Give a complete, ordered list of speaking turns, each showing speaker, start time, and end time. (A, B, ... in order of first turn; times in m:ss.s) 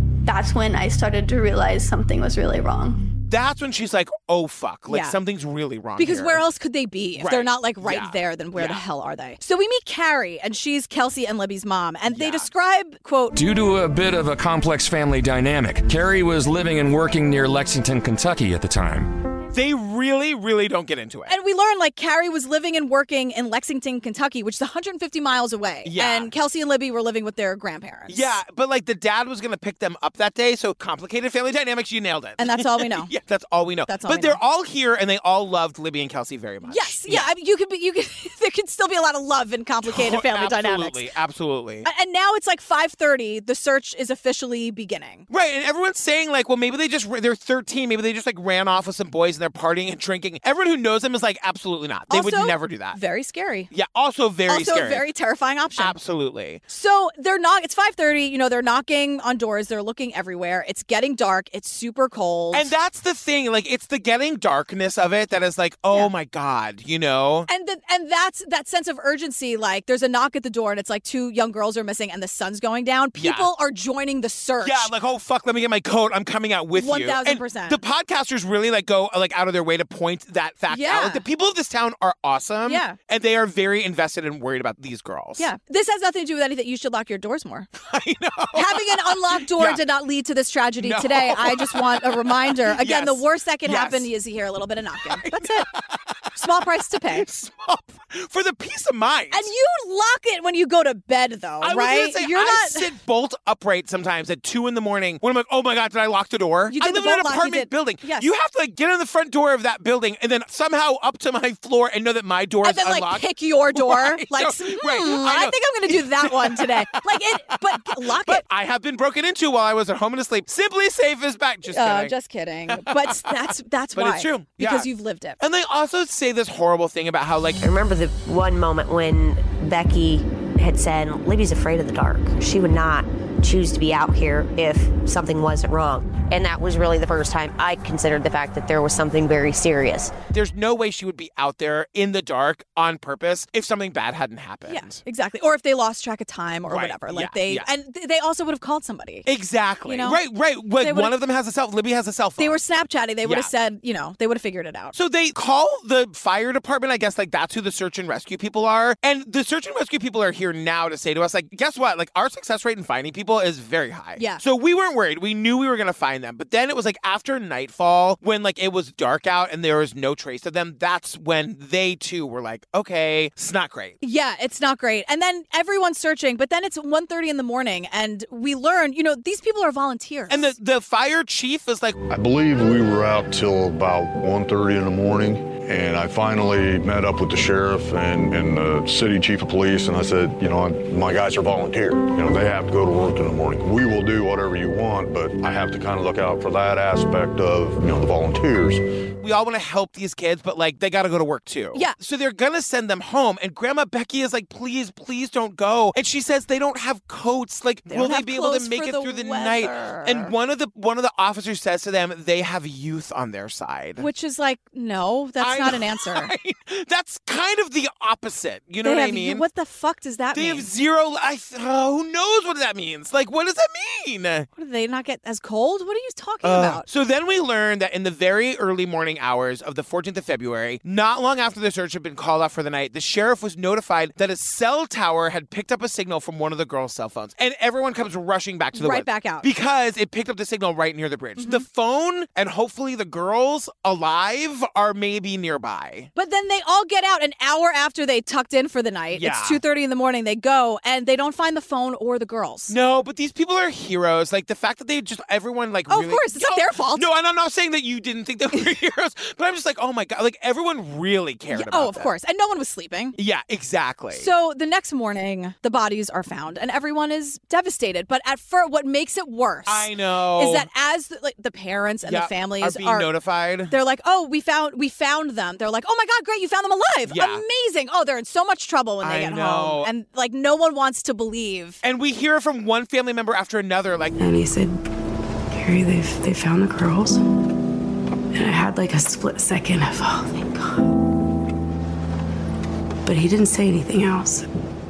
0:00.2-0:03.0 A
0:03.3-0:06.4 B
0:04.9-0:05.2 C
0:06.0-0:13.4 C
0:07.2-0:08.8 B
0:12.1-0:12.5 B
0:13.3-0:19.1 D
0:19.5-0:21.3 B
0:21.3-0:28.4 C
0:25.8-0:26.3 B
0:28.1-0:37.3 B
0:32.4-0:33.1 C
0:33.9-0:34.4 C
0:36.6-0:41.0 C
0:39.8-0:41.9 B
0:41.8-0:45.2 C
0:45.3-0:53.0 B
0:52.1-0:53.7 C
0:53.7-0:55.1 B
0:54.5-0:56.0 C
0:55.8-0:56.6 B
0:56.7-1:02.7 C
1:02.5-1:07.5 B
1:07.5-1:14.9 C
1:13.2-1:13.5 B
1:14.6-1:25.4 B
1:16.8-1:17.8 C
1:20.7-1:21.2 C
1:22.6-1:23.0 C
1:25.4-1:27.7 C
1:27.8-1:29.8 B
1:28.5-1:35.7 C
1:30.8-1:34.1 B
1:35.2-1:36.3 B
1:36.3-1:37.2 C
1:37.1-1:39.5 B
1:39.3-1:42.9 C
1:41.6-2:02.1 B
1:46.7-1:48.3 C
1:52.6-1:58.4 C
2:01.7-2:05.4 C
2:02.7-2:04.9 B
2:05.4-2:07.6 B
2:07.6-2:20.1 E
2:20.3-2:25.0 B
2:24.7-2:29.3 C
2:26.7-2:27.7 B
2:29.2-2:32.6 B
2:29.9-2:30.2 C
2:30.8-2:31.1 C
2:32.4-2:34.9 C
2:33.2-2:33.5 B
2:34.9-2:54.0 B
2:44.2-2:44.4 C
2:54.0-3:00.6 C
3:00.3-3:02.0 B
3:02.0-3:18.8 F
3:19.2-3:34.0 B
3:27.9-3:30.3 C
3:34.0-3:36.3 C
3:35.4-3:39.4 B
3:38.8-3:40.7 C
3:40.3-3:44.5 B
3:44.6-3:46.8 C
3:46.4-4:06.1 B
3:58.7-3:59.5 C
4:01.4-4:01.6 C
4:06.1-4:12.7 C
4:09.1-4:09.6 B
4:12.7-4:22.1 B
4:15.9-4:17.0 C
4:21.5-4:23.2 C
4:23.2-4:24.3 B
4:24.1-4:33.1 C
4:29.6-4:30.7 B
4:32.0-4:33.7 B
4:33.7-4:41.8 C
4:37.1-4:37.4 B
4:39.0-4:39.9 B
4:41.8-4:44.1 B
4:44.2-4:44.8 G
4:45.5-4:47.2 G
4:48.3-4:51.0 G
4:53.0-4:54.4 G